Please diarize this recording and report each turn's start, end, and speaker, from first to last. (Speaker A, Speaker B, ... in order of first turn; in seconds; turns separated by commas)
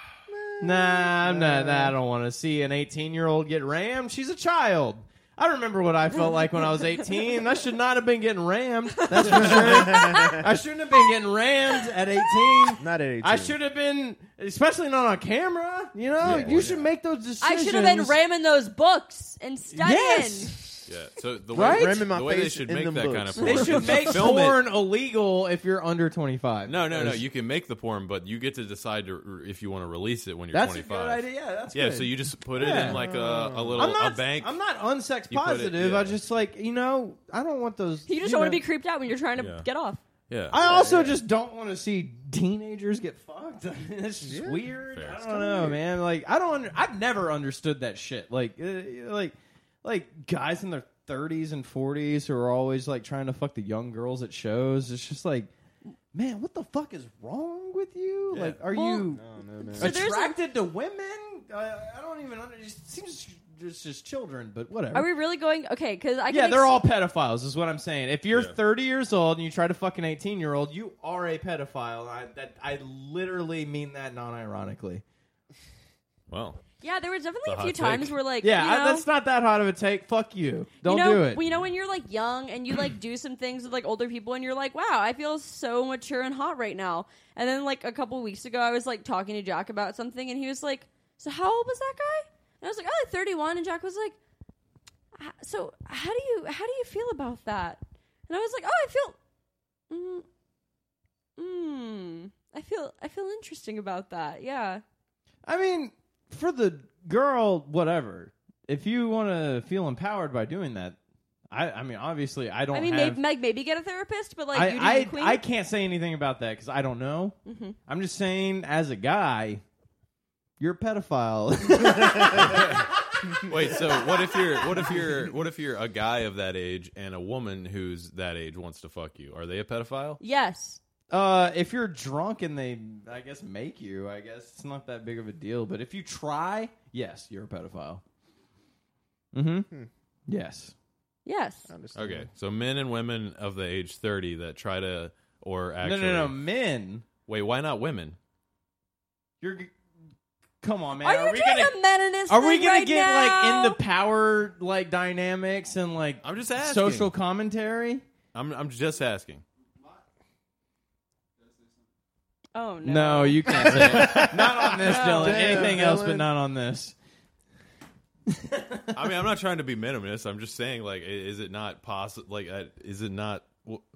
Speaker A: 0.3-2.0, Speaker B: 0.6-18.2, Speaker C: 9.2-10.4, Speaker A: 9.2-10.4, Speaker C: 12.5-12.7, Speaker A: 12.8-13.6, Speaker A: 16.2-16.8, Speaker D: 16.2-16.8, Speaker C: 17.4-20.5, Speaker B: 19.7-20.8, Speaker D: 20.9-24.6, Speaker B: 21.5-22.1, Speaker A: 21.7-24.4, Speaker B: 23.4-27.2, Speaker D: 26.7-34.6, Speaker B: 30.5-33.0, Speaker A: 32.6-34.0, Speaker B: 33.8-38.6, Speaker D: 35.3-36.2, Speaker C: 38.1-40.0, Speaker D: 39.4-39.7, Speaker D: 40.3-40.6, Speaker B: 40.5-55.5, Speaker A: 40.6-41.2, Speaker A: 44.2-44.6, Speaker D: 44.9-45.7, Speaker A: 45.5-45.7, Speaker B: 56.1-59.2, Speaker D: 58.3-58.6, Speaker C: 58.7-59.1, Speaker A: 59.1-60.0, Speaker C: 59.7-60.4, Speaker B: 59.8-65.1, Speaker C: 64.9-66.8, Speaker B: 66.3-75.0, Speaker D: 76.3-76.6, Speaker C: 76.8-79.1, Speaker D: 77.5-78.2, Speaker B: 78.4-81.4, Speaker C: 80.8-94.2, Speaker C: 95.2-99.2, Speaker C: 99.9-100.2, Speaker C: 101.4-104.8, Speaker B: 105.5-111.0, Speaker B: 111.5-113.2, Speaker C: 112.7-115.4, Speaker B: 114.5-119.6, Speaker C: 117.5-117.8, Speaker B: 120.6-122.8, Speaker D: 122.3-122.8, Speaker D: 123.4-130.2, Speaker B: 124.5-125.0, Speaker C: 130.2-130.8, Speaker B: 131.1-138.0, Speaker B: 139.3-139.7, Speaker B: 140.3-140.8, Speaker C: 141.3-141.7, Speaker A: 141.7-142.3, Speaker D: 141.9-146.4, Speaker B: 145.8-147.1, Speaker D: 147.3-148.2, Speaker B: 149.4-149.8, Speaker B: 150.6-151.7, Speaker C: 151.0-153.8, Speaker B: 152.3-158.0, Speaker D: 156.2-157.1, Speaker D: 158.3-159.4, Speaker C: 162.6-164.2, Speaker B: 162.8-166.9, Speaker A: 163.6-166.3, Speaker D: 164.2-164.6, Speaker C: 164.9-165.6, Speaker B: 168.3-169.1, Speaker D: 168.9-173.8